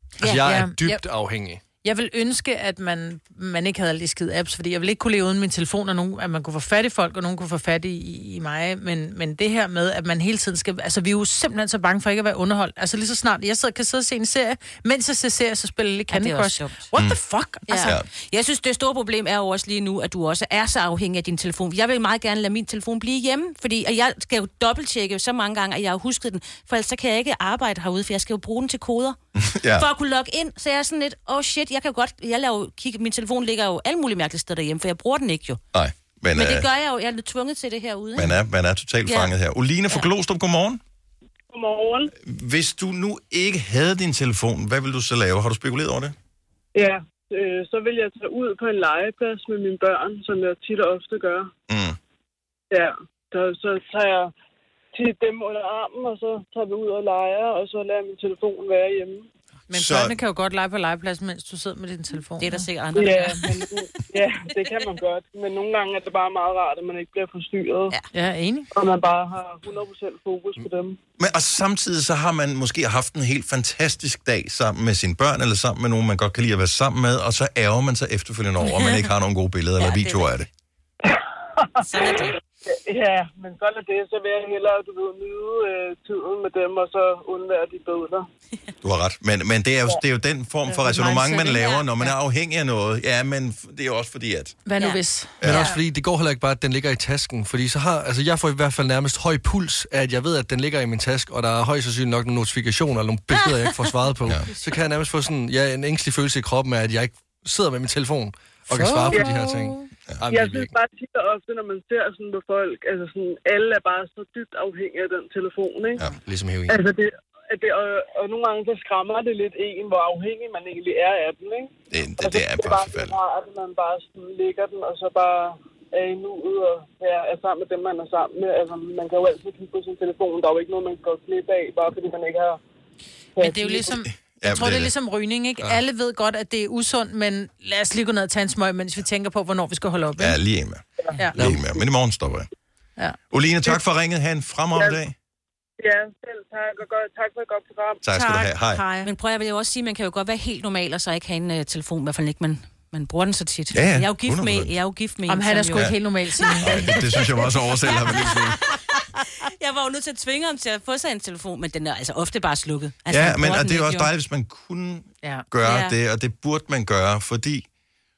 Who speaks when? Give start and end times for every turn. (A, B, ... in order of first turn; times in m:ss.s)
0:00.2-0:00.5 A
0:00.2-0:01.6 B
0:00.2-0:01.0 C
0:01.8-0:17.9 C
0:16.1-0:16.8 A
0:17.7-0:35.6 A
0:29.4-0:29.9 D
0:35.7-0:36.6 D
0:36.4-0:38.4 A
0:38.2-0:40.8 D
0:39.1-0:39.3 A
0:41.5-0:42.1 E
0:42.1-0:46.2 D
0:46.8-0:51.5 E
0:51.7-0:52.0 D
0:52.7-0:54.3 E
0:54.9-0:59.3 E
0:59.7-1:02.6 C
0:59.7-1:00.2 D
1:02.4-1:03.5 A
1:02.9-1:07.9 E
1:08.1-1:08.7 C
1:08.7-1:11.0 E
1:11.2-1:20.5 D
1:18.6-1:19.0 A
1:19.8-1:20.4 A
1:21.8-1:28.3 E
1:21.8-1:22.4 A
1:28.8-1:34.6 D
1:30.7-1:31.6 C
1:31.5-1:32.1 A
1:34.6-1:35.4 C
1:35.4-1:35.7 D
1:35.4-1:50.7 B
1:43.3-1:43.9 A
1:48.7-1:49.7 C
1:50.3-1:56.0 E
1:56.2-1:56.8 B
1:56.7-2:12.6 E
2:01.9-2:03.2 D
2:13.4-2:14.0 E
2:13.4-2:20.4 C
2:14.0-2:14.9 D
2:20.2-2:20.8 D
2:21.3-2:21.6 B
2:21.4-2:22.5 D
2:23.0-2:23.8 C
2:23.3-2:25.2 D
2:25.8-2:28.0 E
2:28.0-2:28.8 D
2:28.1-2:29.1 C
2:29.0-2:44.1 A
2:33.7-2:34.7 D
2:35.3-2:37.0 C
2:36.6-2:38.6 D
2:43.1-2:47.6 D
2:45.6-2:45.9 A